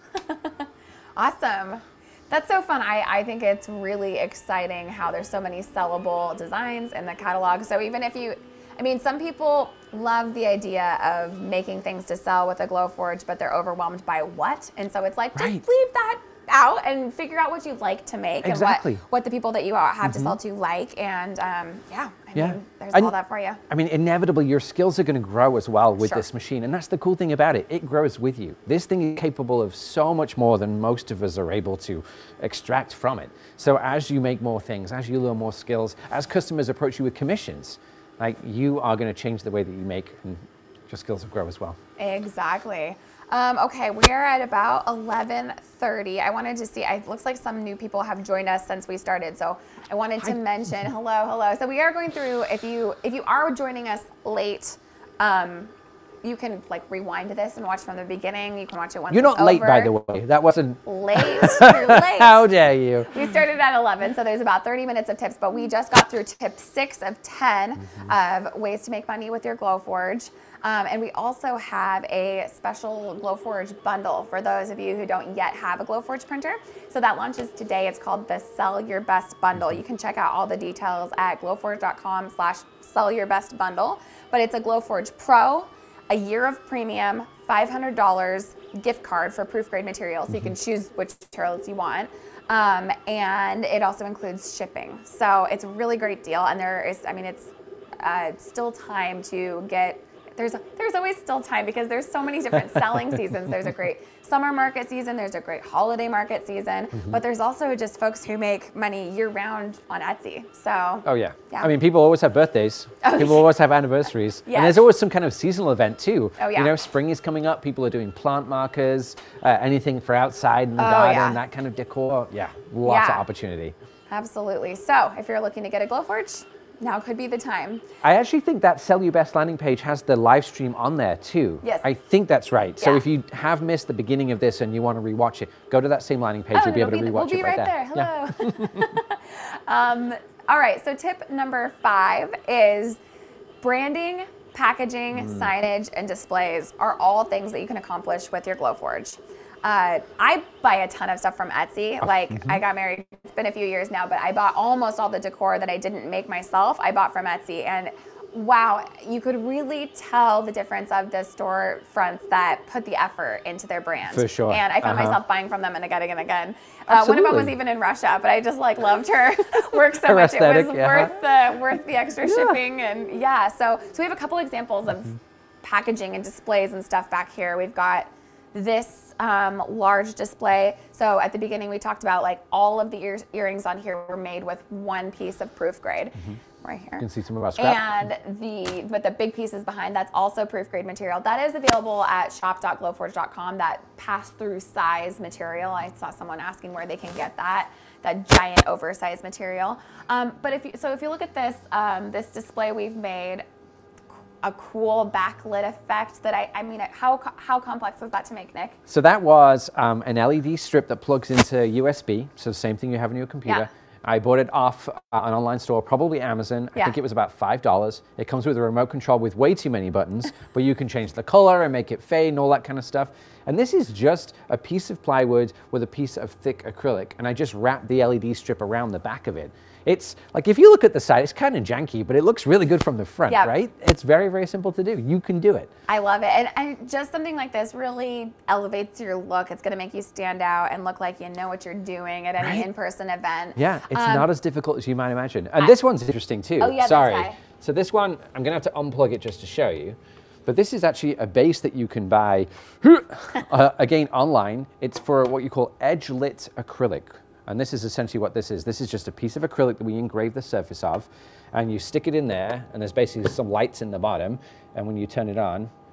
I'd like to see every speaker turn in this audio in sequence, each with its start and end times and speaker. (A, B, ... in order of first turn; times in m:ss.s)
0:00.2-0:23.6 A
0:15.4-0:15.6 B
0:18.4-0:19.0 B
0:20.0-0:20.4 B
0:22.4-0:23.1 B
0:23.7-0:41.8 B
0:42.0-0:59.9 A
0:59.1-1:03.1 B
1:00.8-1:02.5 A
1:03.1-1:51.7 A
1:42.6-1:43.2 B
1:51.0-2:03.8 B
1:53.0-1:53.5 A
1:54.5-1:54.9 A
1:56.4-1:56.7 A
2:00.8-2:01.4 A
2:02.8-2:03.3 A
2:04.1-2:07.9 A
2:08.0-2:18.9 B
2:16.5-2:23.0 A
2:23.6-3:07.1 A
2:25.2-2:25.5 B
2:32.3-2:32.6 B
2:44.1-2:45.2 B
2:46.9-2:47.6 B
2:49.9-2:51.2 B
2:52.2-2:52.6 B
3:07.0-3:07.9 B
3:07.6-3:23.4 A
3:24.4-3:28.8 A
3:28.9-3:55.7 B
3:55.9-4:04.3 A
4:02.4-4:02.7 B
4:03.6-4:25.7 B
4:06.6-4:07.4 A